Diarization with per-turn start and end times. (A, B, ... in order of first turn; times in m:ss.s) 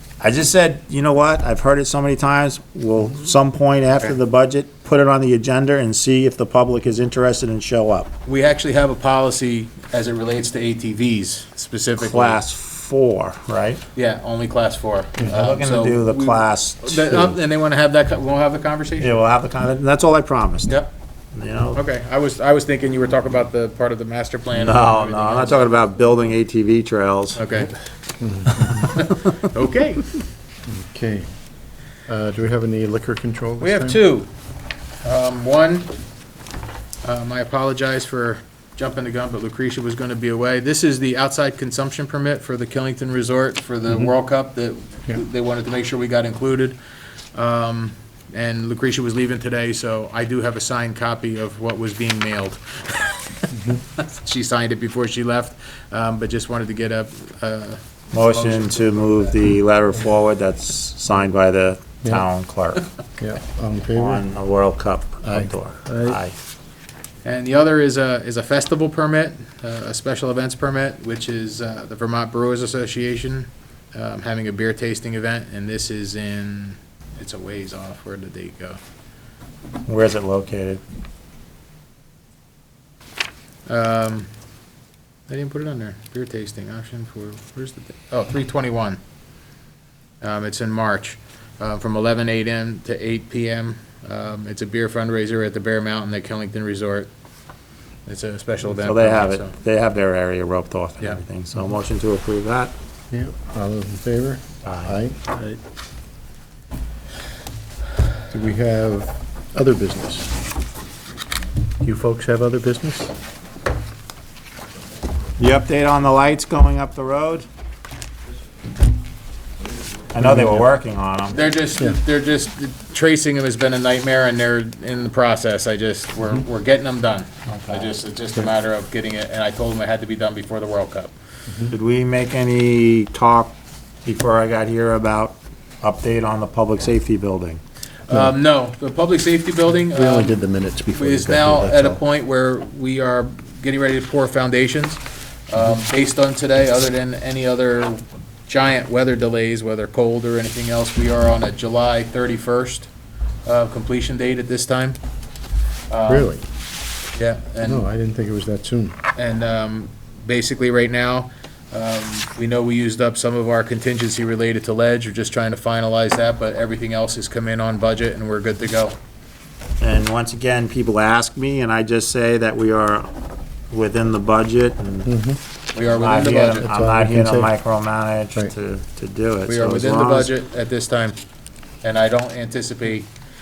0:00.2-0:08.1 A
0:08.2-0:12.4 B
0:12.0-0:13.8 A
0:14.0-0:19.1 B
0:15.2-0:17.4 A
0:19.0-0:20.8 A
0:21.3-0:21.8 A
0:21.7-0:25.6 B
0:24.5-0:27.4 A
0:27.4-0:27.7 B
0:28.2-0:28.9 C
0:28.7-0:30.1 B
0:30.7-0:31.2 C
0:32.1-0:34.0 C
0:33.6-0:34.3 B
0:35.0-0:35.9 B
0:37.0-0:46.8 B
0:47.3-0:53.5 B
0:53.5-0:53.8 C
0:54.0-0:59.3 B
0:58.1-1:02.9 A
1:03.2-1:04.2 C
1:03.9-1:06.3 A
1:05.2-1:06.2 C
1:07.2-1:18.8 B
1:19.9-1:20.8 A
1:23.7-1:24.3 B
1:25.3-1:29.0 B
1:30.2-1:37.1 B
1:38.0-1:39.5 B
1:38.7-1:42.7 A
1:43.1-1:45.6 C
1:44.6-1:45.0 A
1:48.3-1:50.3 C
1:51.8-1:53.1 C
1:55.4-1:57.4 A
2:00.1-2:01.4 A
2:00.2-2:00.6 C
2:01.3-2:11.1 B
2:07.5-2:07.9 A
2:11.7-2:17.6 A
2:18.1-2:20.4 B
2:19.8-2:22.0 C
2:20.9-2:32.9 B
2:33.4-2:35.0 B
2:35.9-2:36.3 B
2:36.1-2:36.4 C
2:37.1-2:37.9 B
2:37.6-2:39.0 C
2:39.2-2:49.0 B
2:49.8-2:53.1 A
2:53.7-2:55.1 A
2:55.0-2:55.4 C
2:55.7-2:56.7 B
2:55.8-3:00.3 A
2:56.6-2:57.5 C
2:59.5-3:01.2 B
3:01.8-3:03.1 B